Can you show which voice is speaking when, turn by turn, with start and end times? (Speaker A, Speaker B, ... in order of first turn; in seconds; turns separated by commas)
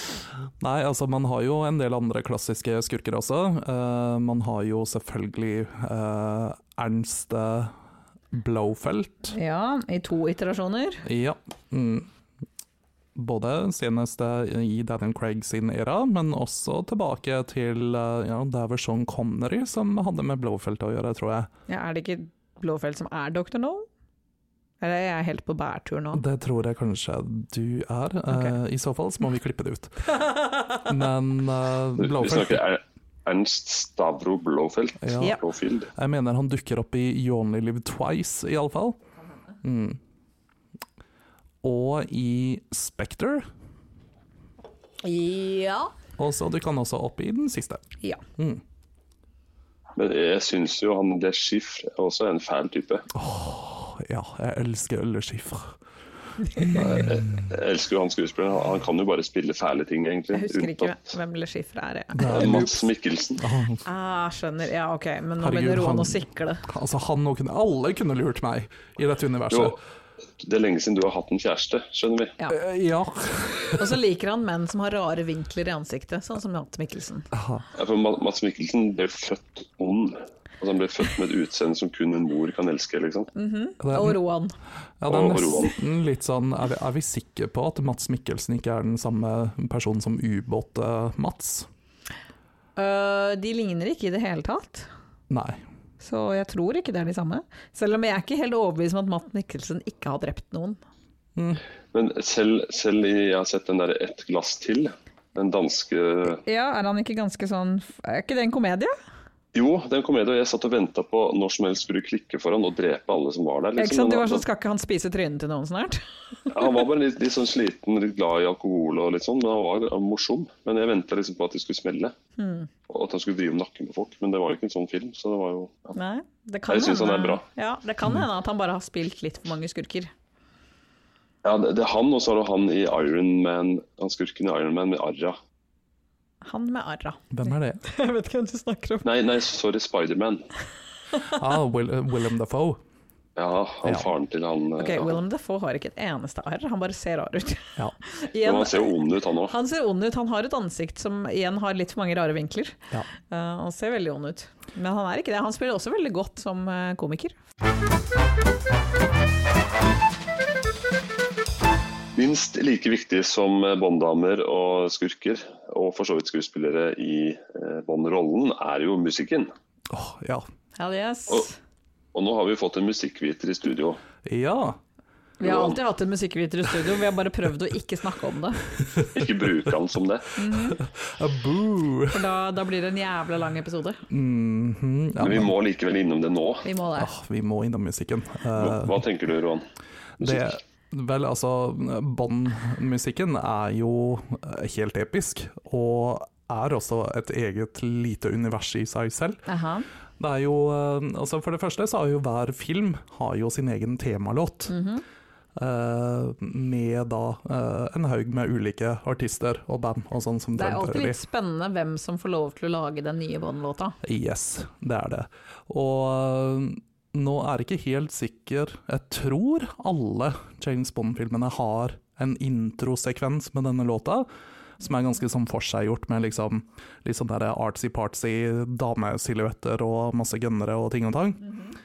Speaker A: 0.6-7.7, Speaker A: 8.3-9.3, Speaker B: 9.3-11.0, Speaker A: 11.1-12.1, Speaker A: 13.2-21.5, Speaker B: 21.7-23.9, Speaker B: 24.8-26.2, Speaker A: 26.1-30.1, Speaker B: 30.2-30.7, Speaker A: 30.9-32.6, Speaker C: 32.0-35.9, Speaker A: 35.0-35.4, Speaker A: 36.0-39.0, Speaker A: 39.6-40.0, Speaker A: 41.6-43.5, Speaker B: 45.0-45.9, Speaker A: 46.2-47.9, Speaker A: 48.4-48.6, Speaker C: 50.0-53.1, Speaker A: 53.1-55.8, Speaker A: 56.6-57.5, Speaker C: 56.8-61.0, Speaker B: 60.3-62.7, Speaker A: 62.1-62.8, Speaker C: 62.3-63.5, Speaker A: 63.4-63.8, Speaker B: 63.9-66.6, Speaker A: 65.4-69.8, Speaker C: 69.5-69.8, Speaker C: 70.4-72.4, Speaker A: 72.5-74.0, Speaker B: 73.8-77.3, Speaker A: 77.3-77.7, Speaker C: 77.8-83.3, Speaker B: 83.3-84.5, Speaker A: 83.8-84.2, Speaker A: 85.0-91.7, Speaker C: 85.1-85.8, Speaker B: 92.8-94.9, Speaker A: 95.3-95.6, Speaker B: 96.0-100.8, Speaker A: 101.4-101.6, Speaker C: 101.9-106.4, Speaker B: 106.5-108.9, Speaker C: 109.5-114.4, Speaker B: 113.8-116.7, Speaker C: 116.5-122.1, Speaker B: 122.4-122.7, Speaker C: 122.9-125.9, Speaker B: 125.9-130.1, Speaker C: 126.7-127.4, Speaker C: 131.4-135.4, Speaker B: 136.4-139.1, Speaker A: 137.3-137.8, Speaker C: 139.0-140.5, Speaker A: 141.3-142.8, Speaker C: 143.4-145.2, Speaker B: 144.8-148.9, Speaker C: 148.4-149.5, Speaker B: 149.5-157.4, Speaker C: 162.1-169.5, Speaker A: 169.9-170.5, Speaker B: 170.8-171.6, Speaker C: 172.1-174.0, Speaker A: 174.2-174.8, Speaker B: 175.4-178.6, Speaker C: 175.4-175.8, Speaker A: 178.8-179.1, Speaker C: 179.1-180.3, Speaker B: 180.4-180.8, Speaker A: 180.5-182.2, Speaker B: 182.1-184.0, Speaker A: 184.1-185.5, Speaker C: 185.2-186.7, Speaker B: 186.6-187.1, Speaker A: 187.0-189.0, Speaker C: 188.6-189.7, Speaker C: 190.2-190.6, Speaker A: 190.2-199.4, Speaker B: 199.5-199.9, Speaker A: 200.2-204.7, Speaker B: 204.7-205.0, Speaker A: 205.6-211.2, Speaker B: 210.6-214.0, Speaker A: 214.0-224.3, Speaker A: 224.8-231.5